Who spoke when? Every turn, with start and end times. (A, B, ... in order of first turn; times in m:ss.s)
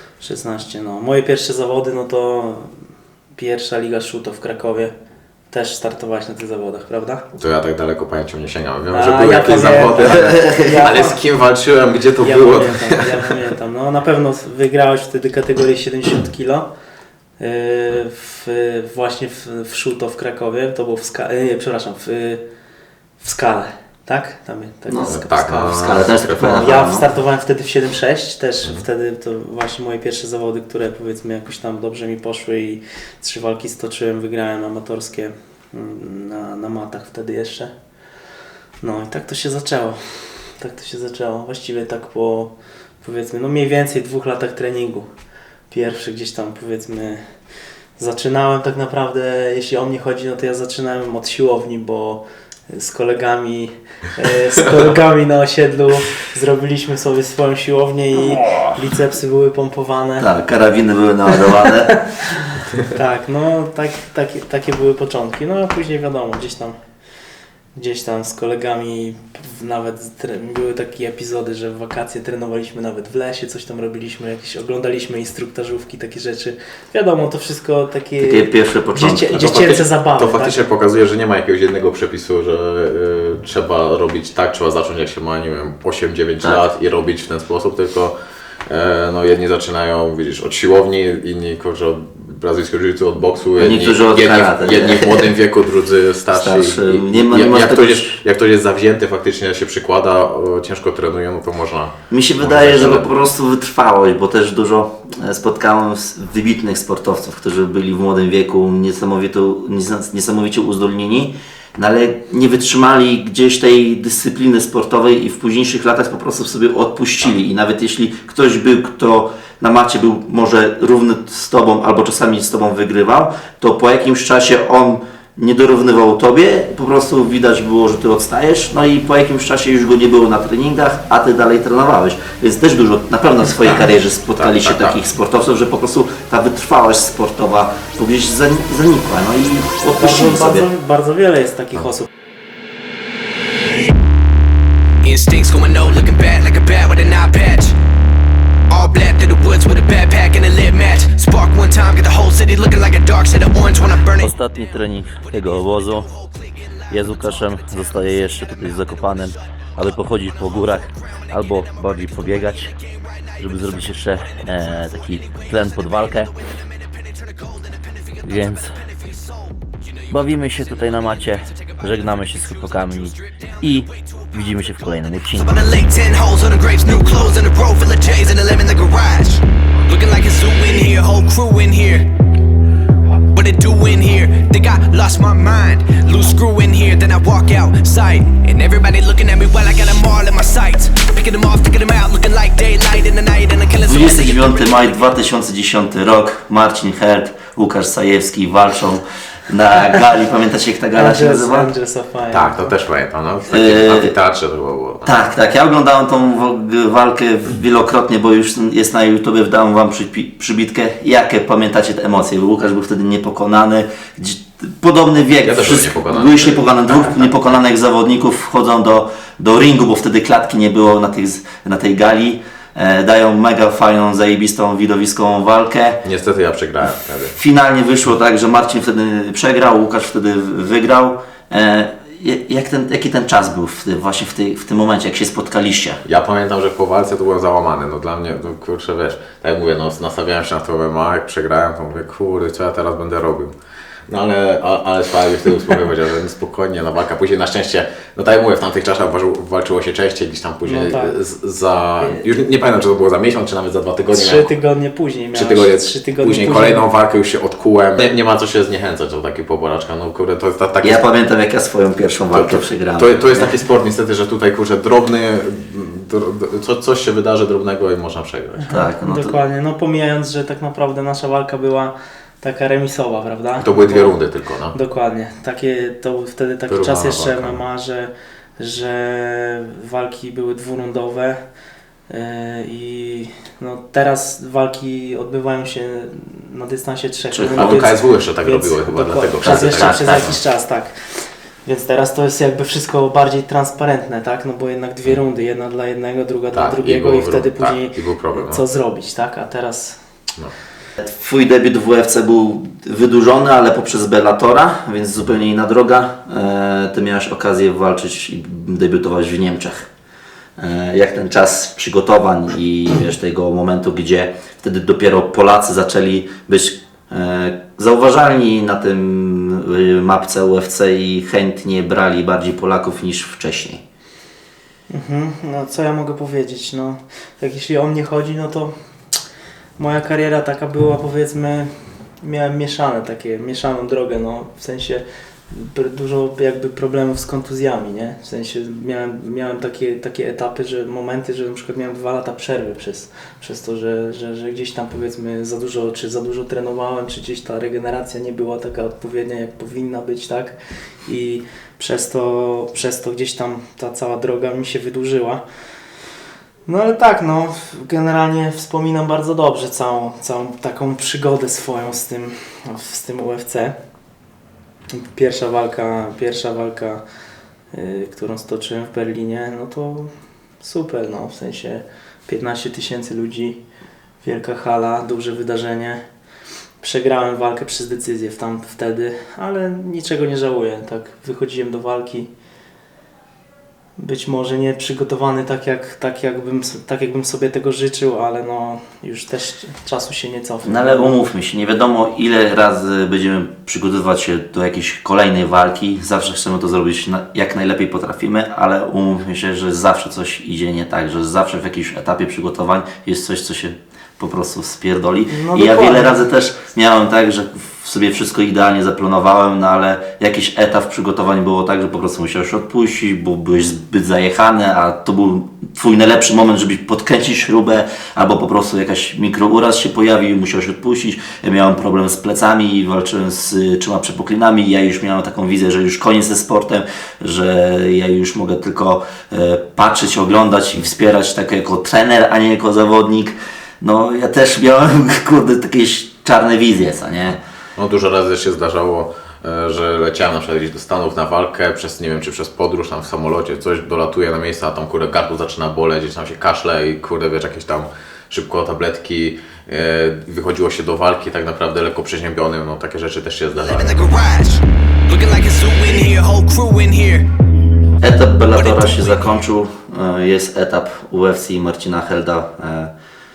0:00.2-0:02.7 A
0:03.3-0:04.9 A
0:05.5-0:07.2 A
0:07.4-0:13.4 B
0:08.9-0:11.2 A
0:10.0-0:10.9 C
0:12.2-0:16.7 A
0:17.4-0:22.4 A
0:23.2-0:37.7 A
0:24.9-0:27.0 C
0:25.1-0:26.7 B
0:38.8-0:45.1 A
0:45.7-0:47.2 A
0:48.0-1:00.3 A
1:00.2-1:02.0 C
1:01.4-1:06.8 A
1:07.7-1:20.6 A
1:18.2-1:19.4 C
1:19.3-1:28.1 B
1:28.7-1:43.1 B
1:33.6-1:35.3 C
1:36.3-1:38.2 C
1:42.1-2:20.7 C
2:14.4-2:15.0 B
2:19.9-2:22.1 A
2:25.0-2:27.8 D
2:28.7-2:39.3 D
2:34.2-2:36.1 C
2:36.9-2:42.7 C
2:40.3-3:02.1 D
2:43.4-2:46.3 C
2:48.2-2:48.8 C
2:50.1-2:55.7 C
3:03.3-3:15.1 D
3:13.8-3:21.7 C
3:20.9-3:22.7 A
3:22.3-3:25.1 B
3:23.5-3:24.1 C
3:25.0-3:46.0 C
3:35.4-3:37.6 B
3:46.0-3:47.4 B
3:47.3-3:56.0 C
3:56.0-4:03.5 B
4:04.1-4:14.5 B
4:10.6-4:11.1 A
4:12.0-4:12.2 A
4:14.1-4:16.8 A
4:15.3-4:21.0 B
4:20.8-4:23.5 C
4:22.3-4:28.7 B
4:28.6-4:34.1 A
4:28.7-4:29.4 C
4:33.6-4:34.8 B
4:34.7-4:41.4 A
4:36.7-4:37.6 B
4:42.1-5:00.0 A
4:47.3-4:47.8 C
4:47.4-4:50.4 B
4:49.4-4:50.4 C
4:56.5-4:58.6 B
5:01.0-5:09.9 C
5:10.6-5:23.8 C
5:24.9-5:28.7 A
5:29.8-5:55.4 A
5:56.7-6:03.7 A
6:04.9-6:07.0 A
6:07.7-6:13.6 A
6:14.2-6:16.0 A
6:16.8-6:22.3 A
6:24.0-6:31.3 A
6:30.6-7:17.4 C
6:45.3-6:46.2 A
7:17.8-7:34.0 B
7:33.6-7:37.3 D
7:38.0-7:42.9 C
7:38.5-7:39.4 D